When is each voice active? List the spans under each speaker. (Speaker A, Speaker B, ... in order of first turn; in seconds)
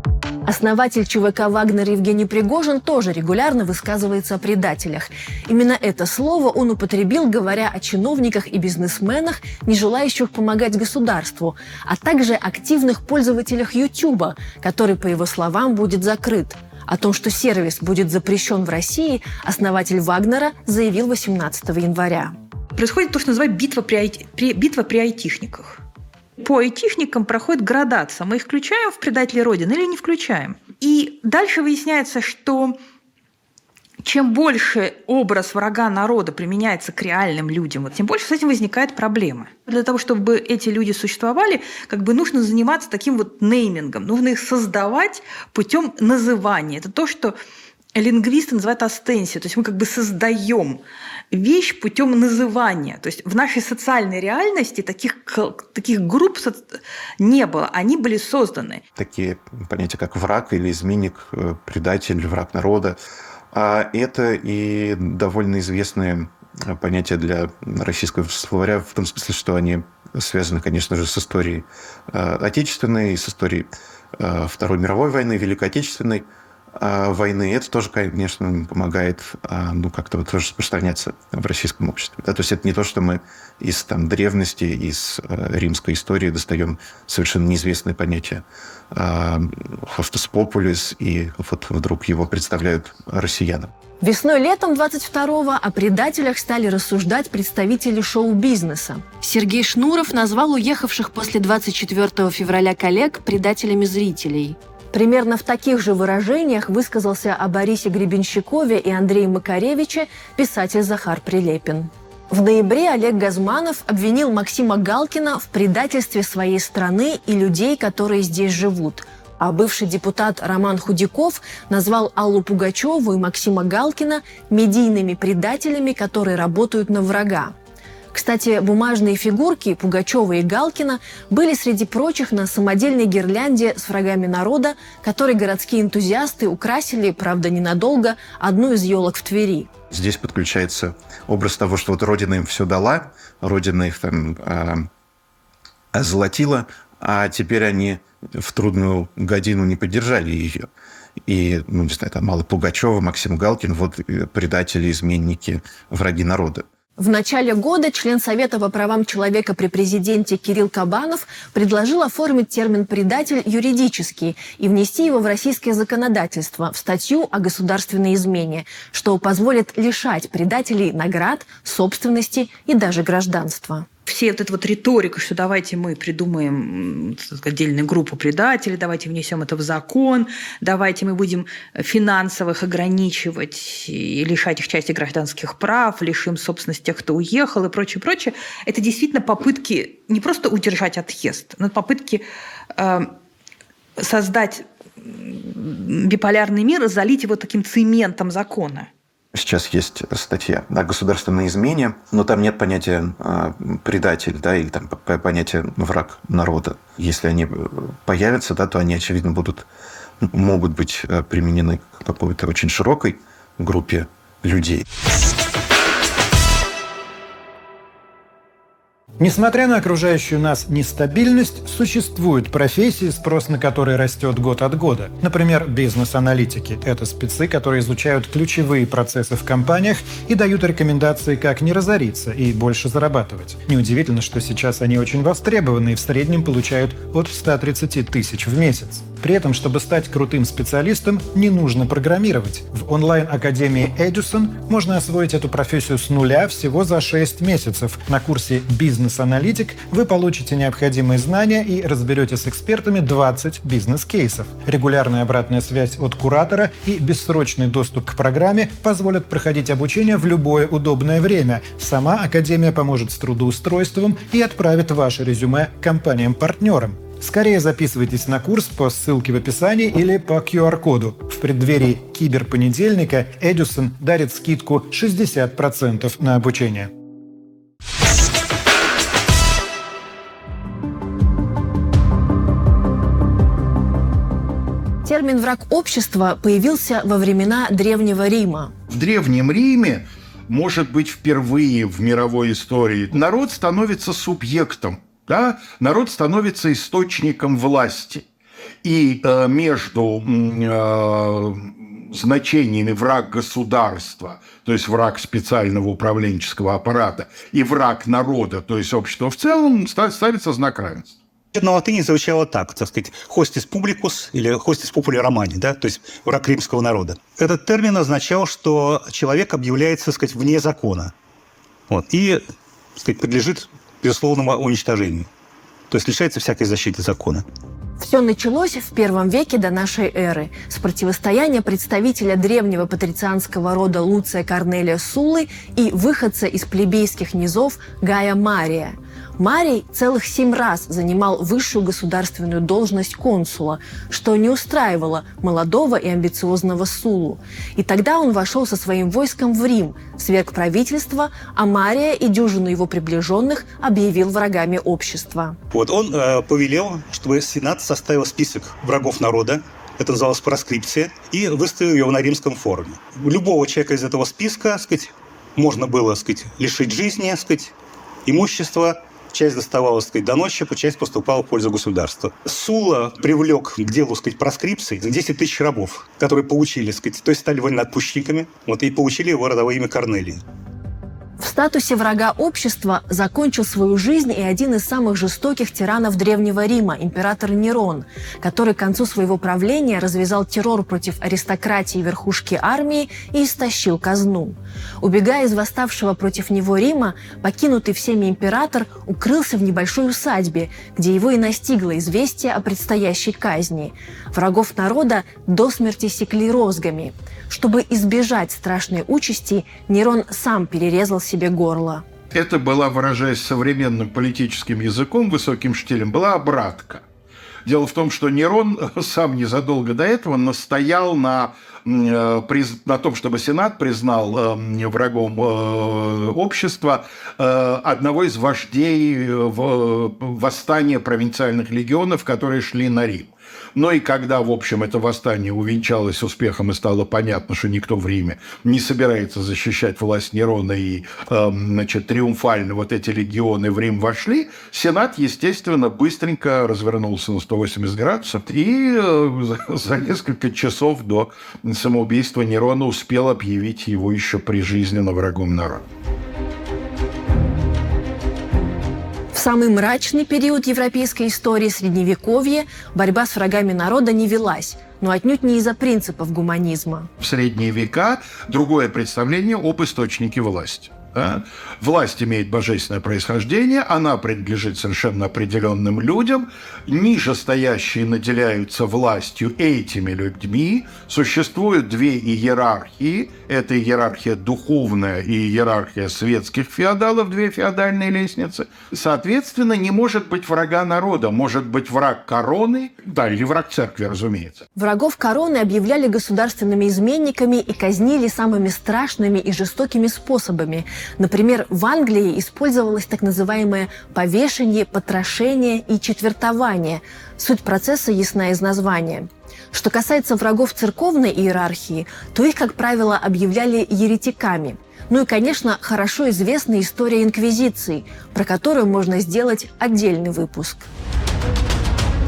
Speaker A: 0.5-22.3, 94.0-127.5, 128.1-139.7, 157.0-173.9, 285.1-288.7, 328.0-355.6, 381.4-412.0, 459.3-467.1, 494.8-520.9
Speaker B: 22.8-25.8, 26.4-32.8, 34.0-47.4, 48.0-58.8, 174.1-193.1, 194.0-198.9
Speaker C: 59.0-63.0, 63.5-93.7, 139.9-144.9, 145.9-150.7, 151.2-156.7, 199.3-209.7, 210.2-214.8
Speaker D: 219.2-276.9
Speaker E: 288.9-298.2, 298.8-311.2, 412.3-417.1, 417.6-455.8, 467.2-494.6
Speaker F: 311.5-321.1, 321.9-322.4, 323.0-325.3, 325.9-327.4, 355.7-367.8, 368.3-380.4